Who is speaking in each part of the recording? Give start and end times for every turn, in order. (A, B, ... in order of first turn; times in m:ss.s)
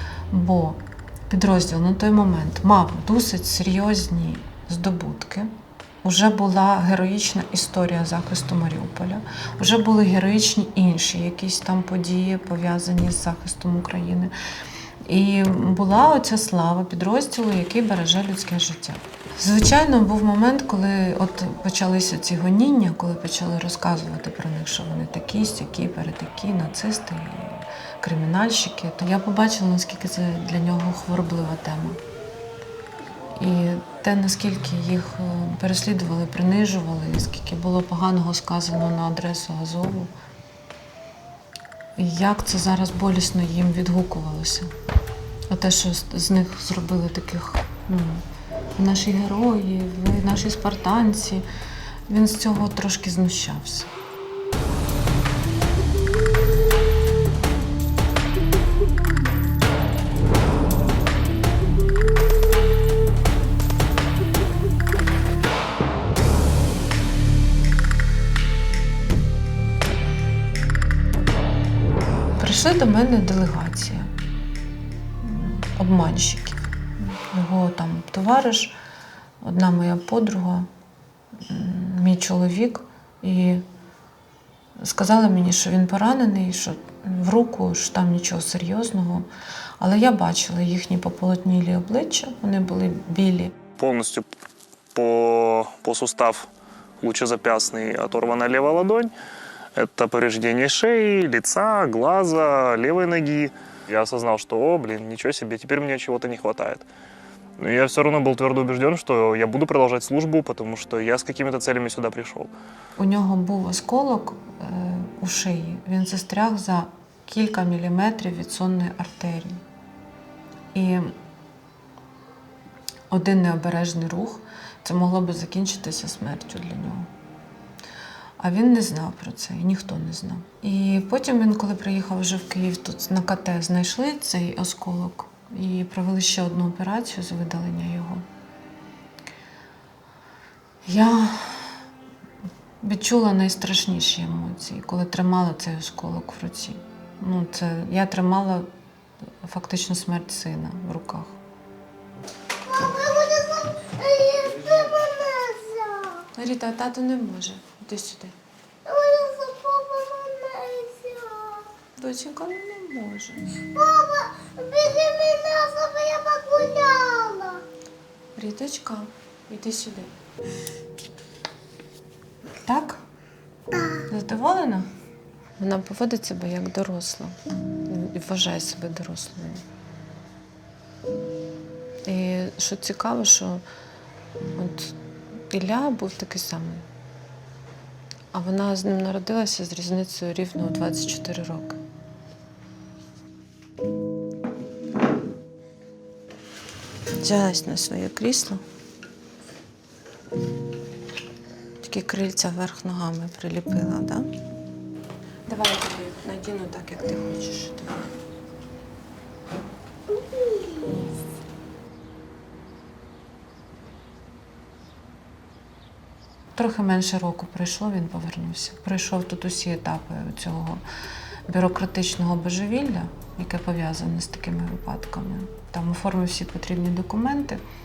0:00.3-0:14.3 A
0:15.0-0:32.0 A
0:33.4-0:40.1 A
0:42.0-0:44.7 A
0:45.5-0:48.2 A
0:48.8-0:51.4 A
0:52.1-0:53.9 A
1:12.4-1:14.1 A
1:15.2-1:18.8 A
1:19.4-1:20.7 A
1:21.4-1:23.6 A
1:24.8-1:29.3 A
1:29.8-1:33.5 A
1:33.8-1:34.3 B
1:34.9-1:36.5 B
1:37.0-1:39.1 B
1:39.8-1:46.9 B
1:47.6-1:52.5 B
1:53.0-1:59.6 A
2:00.7-2:01.1 A
2:03.1-2:07.1 A
2:08.4-2:18.2 A
2:20.8-2:21.8 A
2:22.8-2:28.7 A
2:29.4-2:31.4 A
2:32.6-2:36.3 C
2:36.4-2:38.3 A
2:38.8-2:41.7 C
2:42.0-2:43.6 A
2:43.7-2:47.6 C
2:48.4-2:50.1 A
2:52.6-2:53.0 A
2:54.1-2:54.9 A
2:55.6-2:59.6 A
3:02.0-3:03.6 A
3:04.6-3:05.0 A
3:05.5-3:06.9 A
3:08.3-3:11.8 A
3:17.2-3:18.6 A
3:21.8-3:24.3 A
3:25.5-3:28.0 A
3:36.5-3:40.8 A
3:41.5-3:47.6 A